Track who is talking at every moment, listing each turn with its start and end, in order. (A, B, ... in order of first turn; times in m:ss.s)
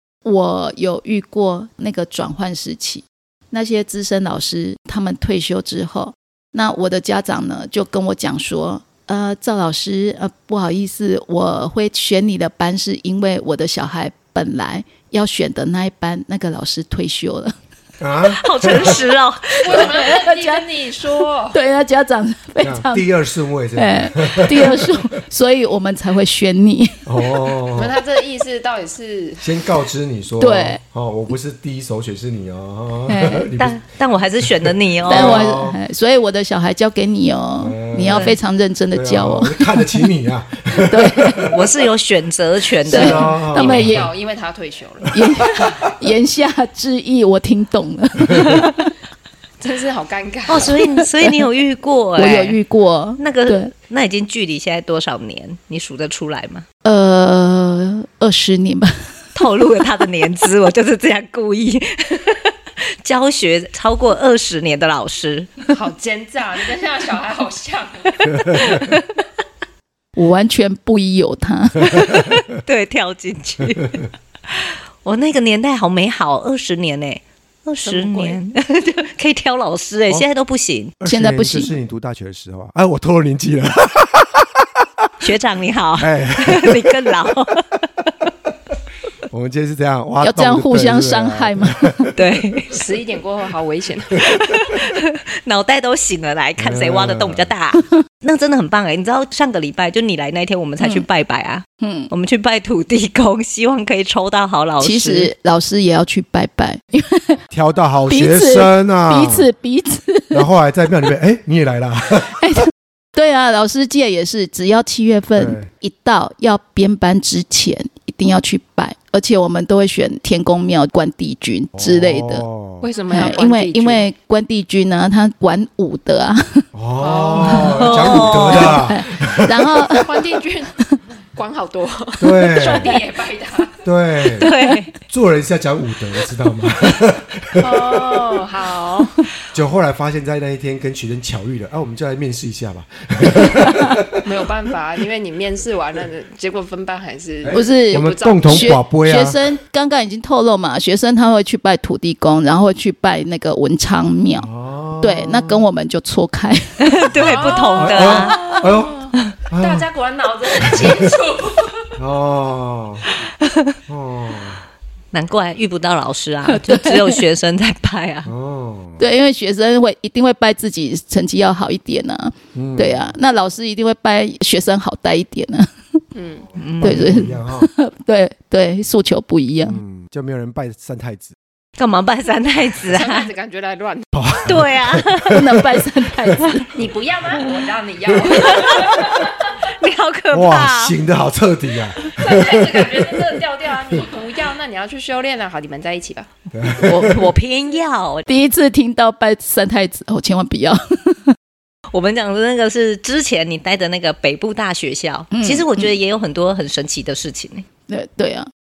0:00.2-0:17.6 A
0:18.0-0:19.0 B
0:18.2-0:20.0 C
0:19.6-0:21.6 D
0:19.6-0:20.9 A
0:21.5-0:23.1 A
0:22.6-0:25.1 B
0:23.8-0:27.0 A
0:27.1-0:28.0 B
0:27.7-0:29.6 D
0:29.4-0:33.8 B
0:30.4-0:30.8 A
0:33.1-0:33.5 A
0:33.6-0:35.5 C
0:34.5-0:35.8 B
0:35.0-0:40.1 A
0:37.6-0:38.3 B
0:38.9-0:41.6 B
0:40.8-0:41.5 A
0:41.5-0:43.3 C
0:42.8-0:44.1 B
0:42.9-0:44.0 A
0:43.3-0:45.5 D
0:45.1-0:48.9 A
0:48.5-0:48.7 C
0:49.6-0:50.8 D
0:50.5-0:52.6 C
0:50.8-0:51.4 A
0:52.2-0:53.7 A
0:53.2-0:56.7 C
0:56.8-0:59.1 A
0:59.4-1:05.7 C
1:05.7-1:08.8 D
1:08.7-1:09.1 C
1:10.2-1:12.4 A
1:12.5-1:20.9 C
1:17.8-1:18.4 D
1:21.0-1:25.1 B
1:21.0-1:21.7 A
1:25.2-1:27.8 C
1:26.0-1:27.2 B
1:29.3-1:32.6 B
1:30.2-1:32.0 A
1:32.2-1:32.8 C
1:32.7-1:34.3 D
1:34.2-1:45.3 C
1:36.6-1:37.5 B
1:41.8-1:42.1 A
1:44.8-1:47.4 A
1:47.5-1:49.5 B
1:48.1-1:50.4 A
1:50.3-1:52.4 B
1:52.4-2:02.4 A
1:55.4-1:55.7 B
2:01.8-2:02.9 B
2:02.8-2:04.0 D
2:03.1-2:06.6 A
2:06.7-2:10.0 B
2:07.0-2:08.5 D
2:07.7-2:08.8 C
2:08.6-2:10.1 A
2:10.0-2:10.8 D
2:11.3-2:13.8 D
2:12.2-2:13.0 B
2:13.8-2:14.5 B
2:14.4-2:14.9 C
2:15.1-2:18.3 B
2:17.6-2:19.2 D
2:19.5-2:24.2 B
2:24.2-2:28.8 D
2:27.4-2:29.4 B
2:27.5-2:34.5 A
2:34.4-2:35.6 B
2:35.0-2:37.0 A
2:36.8-2:38.7 C
2:37.2-2:42.0 D
2:37.7-2:39.9 B
2:40.6-2:41.0 B
2:42.0-2:43.1 B
2:43.4-2:43.7 C
2:43.9-2:44.6 B
2:45.1-2:48.3 C
2:46.5-2:47.2 A
2:48.3-2:49.0 B
2:49.0-2:56.0 A
2:52.5-2:53.1 B
2:56.2-2:56.6 D
2:56.6-2:57.1 C
2:56.8-2:57.7 B
2:56.8-2:59.8 A
2:59.6-3:01.4 B
3:01.8-3:03.3 C
3:02.9-3:04.1 D
3:04.1-3:05.6 B
3:04.4-3:05.5 C
3:05.3-3:06.6 A
3:06.7-3:09.5 D
3:08.3-3:09.1 C
3:09.7-3:11.0 C
3:10.3-3:14.0 B
3:12.0-3:16.3 D
3:16.5-3:17.3 B
3:16.7-3:18.3 C
3:18.3-3:21.4 A
3:21.9-3:27.7 C
3:25.3-3:25.9 A
3:27.9-3:28.5 A